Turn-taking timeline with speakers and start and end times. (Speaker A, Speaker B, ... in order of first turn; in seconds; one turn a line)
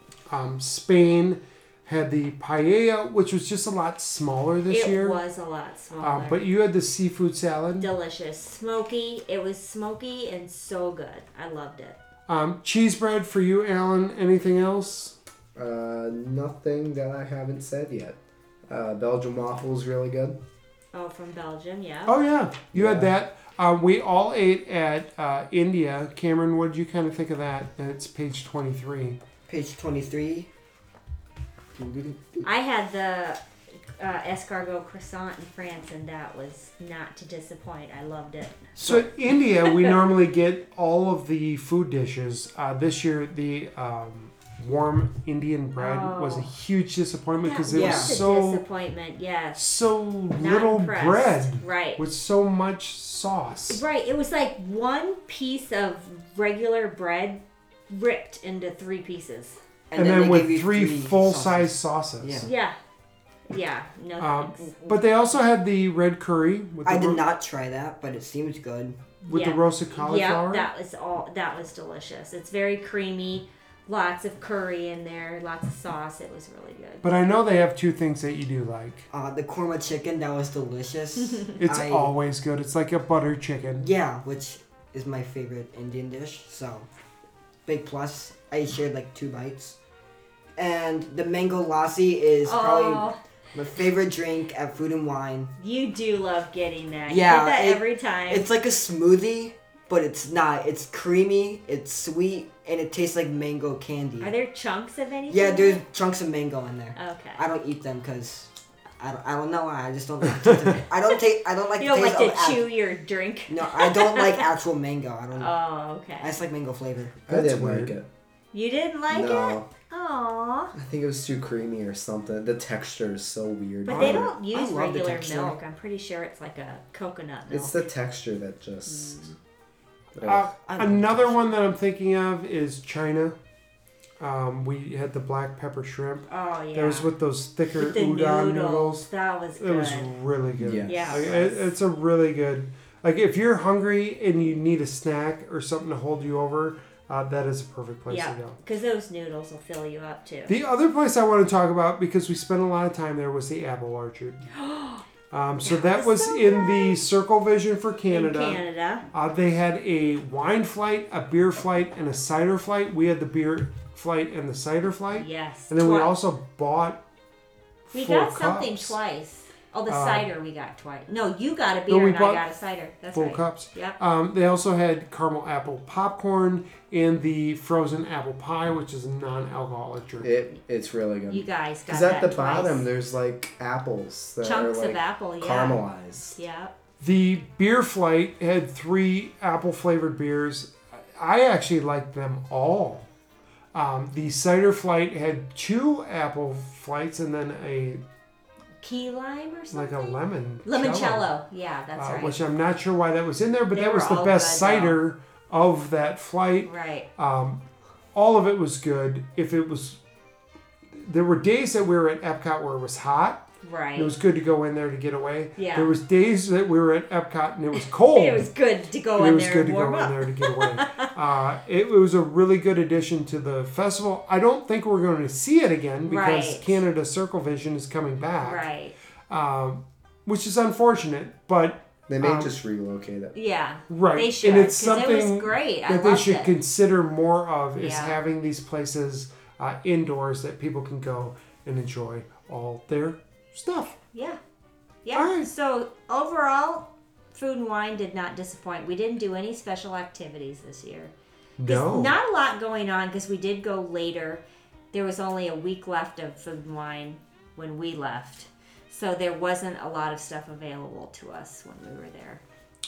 Speaker A: 0.3-5.2
Speaker B: 4.7-6.4
Speaker A: 6.0-7.9
Speaker B: 7.8-12.0
Speaker A: 12.3-15.2
Speaker C: 15.5-18.2
Speaker C: 18.7-20.4
Speaker B: 20.9-22.1
Speaker A: 22.1-29.2
Speaker C: 22.7-23.1
Speaker D: 29.5-30.5
Speaker D: 31.8-32.4
Speaker B: 32.4-33.4
Speaker B: 34.0-39.0
Speaker A: 38.8-48.6
Speaker B: 39.6-39.9
Speaker B: 45.8-46.5
Speaker B: 47.4-49.7
Speaker D: 47.7-48.2
Speaker A: 49.5-53.8
Speaker B: 50.4-52.0
Speaker B: 53.7-59.6
Speaker D: 59.9-62.5
Speaker A: 60.0-62.5
Speaker B: 62.4-62.8
Speaker B: 63.5-65.0
Speaker A: 64.2-67.2
Speaker D: 66.8-69.0
Speaker A: 69.2-70.7
Speaker B: 69.3-77.1
Speaker A: 77.0-79.1
Speaker D: 79.1-82.1
Speaker A: 81.6-83.9
Speaker D: 83.8-86.9
Speaker D: 87.7-89.8
Speaker D: 90.5-95.5
Speaker B: 92.5-93.2
Speaker B: 95.6-98.5
Speaker D: 97.1-104.3
Speaker B: 104.2-105.8
Speaker D: 105.3-112.7
Speaker B: 106.9-107.4
Speaker A: 110.4-110.7
Speaker B: 111.8-114.4
Speaker D: 113.5-115.5
Speaker B: 115.3-116.3
Speaker D: 116.2-117.2
Speaker C: 117.3-118.1
Speaker A: 117.3-118.0
Speaker B: 118.5-120.7
Speaker C: 119.1-119.7
Speaker C: 120.7-124.3
Speaker B: 123.8-127.8
Speaker D: 123.9-125.6
Speaker C: 127.5-129.3
Speaker B: 128.9-129.2
Speaker C: 130.2-130.5
Speaker A: 130.2-133.4
Speaker D: 130.6-131.4
Speaker A: 134.2-139.1
Speaker B: 136.3-137.1
Speaker B: 137.7-140.1
Speaker A: 139.6-148.6
Speaker C: 140.6-141.2
Speaker B: 140.8-141.6
Speaker B: 148.1-150.5
Speaker A: 150.5-154.4
Speaker B: 154.5-155.0
Speaker A: 155.3-167.0
Speaker B: 155.6-157.0
Speaker B: 158.1-159.1
Speaker B: 165.1-166.1
Speaker A: 167.9-169.0
Speaker B: 167.9-174.0
Speaker A: 169.9-170.3
Speaker A: 171.9-172.4
Speaker A: 173.1-180.3
Speaker C: 180.2-186.4
Speaker B: 181.3-182.8
Speaker B: 184.4-185.8
Speaker B: 186.3-186.7
Speaker A: 187.0-193.1
Speaker A: 193.7-198.0
Speaker B: 198.8-202.4
Speaker A: 199.7-201.3
Speaker A: 201.9-207.6
Speaker B: 203.7-205.0
Speaker B: 206.6-207.1
Speaker A: 208.1-210.0
Speaker A: 210.9-213.4
Speaker B: 213.6-214.1
Speaker A: 213.9-218.5
Speaker B: 215.6-215.9
Speaker B: 217.8-221.1
Speaker A: 219.1-228.7
Speaker B: 226.1-226.8
Speaker B: 228.4-228.9
Speaker A: 229.3-232.5
Speaker C: 232.1-233.3
Speaker B: 233.3-236.5
Speaker A: 233.9-244.0
Speaker B: 237.8-238.2
Speaker B: 245.0-251.1
Speaker A: 245.1-245.5
Speaker A: 251.6-252.2
Speaker B: 251.7-262.4